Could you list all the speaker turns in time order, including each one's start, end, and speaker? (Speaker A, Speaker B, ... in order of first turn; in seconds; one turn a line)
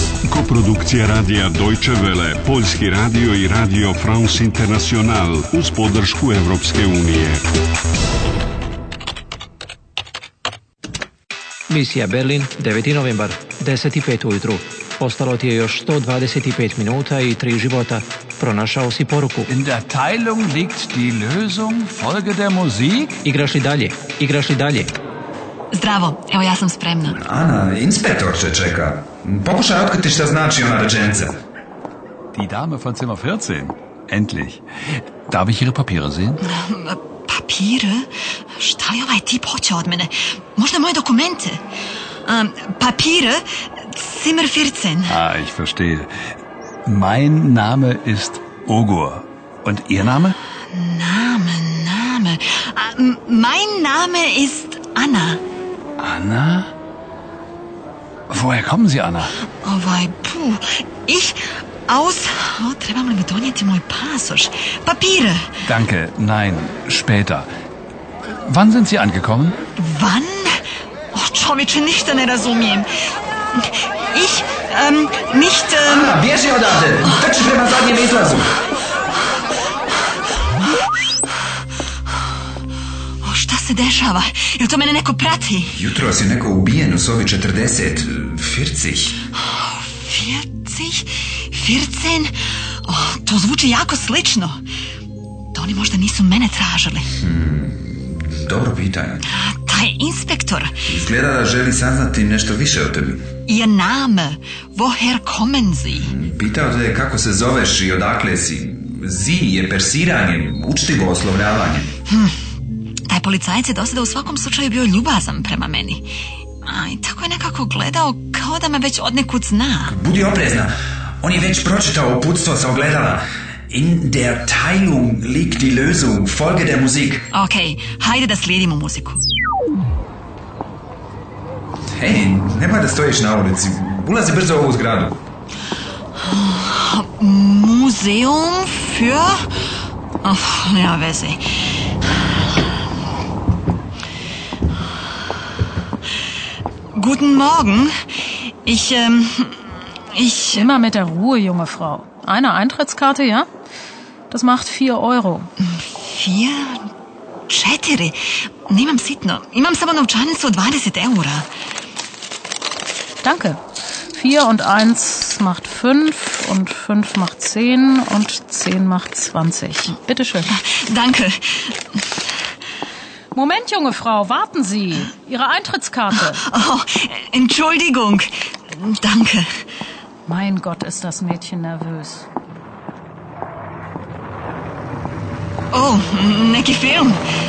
Speaker A: 0.3-7.4
Speaker B: 11.7-19.5
Speaker C: 19.5-23.2
Speaker B: 23.2-24.9
Speaker D: 25.7-27.2
Speaker E: 27.2-31.4
Speaker C: 32.3-34.6
Speaker C: 35.3-36.4
Speaker D: 36.4-41.6
Speaker D: 42.3-45.2
Speaker C: 45.1-46.1
Speaker C: 46.9-50.4
Speaker D: 50.7-55.4
Speaker C: 56.0-56.7
Speaker C: 58.3-59.3
Speaker D: 59.6-65.5
Speaker C: 65.6-67.5
Speaker C: 68.4-69.6
Speaker D: 69.8-70.6
Speaker D: 71.1-72.9
Speaker D: 73.6-76.2
Speaker E: 75.8-78.5
Speaker D: 83.2-85.8
Speaker E: 85.7-89.2
Speaker D: 89.4-94.6
Speaker D: 95.5-97.1
Speaker E: 97.2-99.2
Speaker D: 99.3-100.8
Speaker E: 100.9-103.2
Speaker D: 103.5-106.1
Speaker E: 106.0-111.9
Speaker D: 112.1-112.3
Speaker D: 113.1-116.1
Speaker D: 116.7-120.0
Speaker E: 119.9-127.3
Speaker D: 127.3-129.2
Speaker E: 132.0-135.2
Speaker D: 136.2-139.5
Speaker D: 140.2-141.4
Speaker D: 146.9-147.9
Speaker D: 148.7-149.6
Speaker D: 150.2-150.7
Speaker F: 150.5-153.5
Speaker F: 154.3-155.5
Speaker D: 155.6-156.9
Speaker D: 157.5-161.5
Speaker F: 163.2-163.6
Speaker F: 164.1-170.5
Speaker D: 170.5-171.4
Speaker F: 173.3-176.4
Speaker D: 176.3-179.5
Speaker F: 180.3-182.3
Speaker D: 185.7-187.2